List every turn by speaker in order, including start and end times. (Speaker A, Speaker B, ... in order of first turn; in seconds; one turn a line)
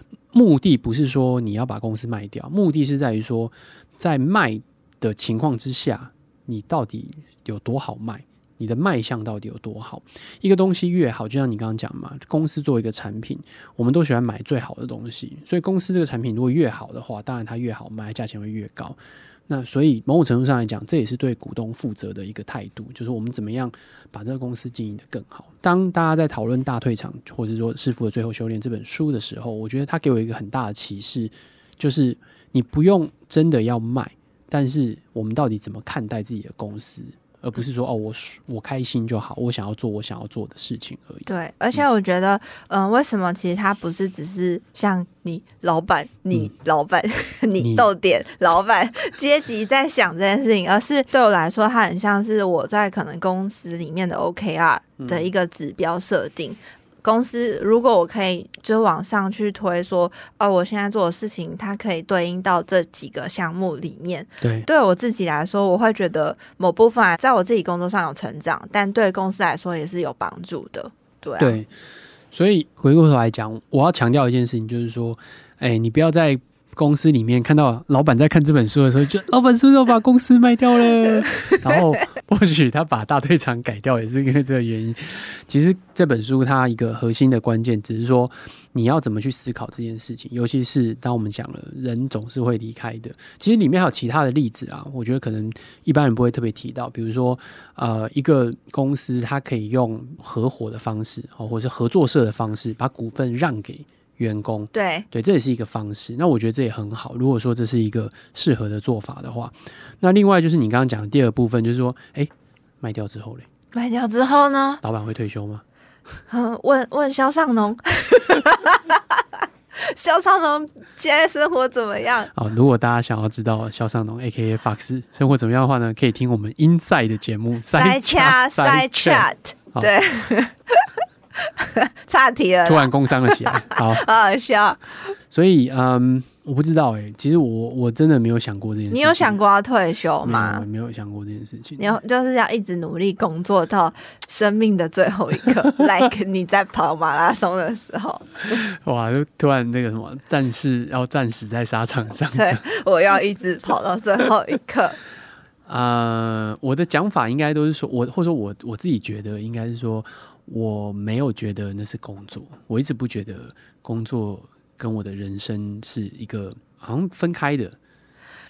Speaker A: 0.3-19.0
Speaker A: 19.5-41.8
Speaker B: 41.3-71.6
Speaker A: 47.6-47.9
Speaker A: 55.0-55.3
Speaker A: 64.4-64.7
Speaker A: 71.4-71.7
Speaker A: 72.3-113.5
Speaker B: 104.7-105.1
Speaker B: 113.7-114.8
Speaker A: 114.8-115.6
Speaker B: 116.3-122.3
Speaker A: 122.3-129.9
Speaker B: 127.7-135.0
Speaker A: 132.7-134.1
Speaker A: 135.3-139.4
Speaker B: 138.9-140.7
Speaker A: 140.2-141.9
Speaker B: 141.8-148.3
Speaker A: 148.5-152.6
Speaker B: 152.3-155.0
Speaker A: 155.7-167.8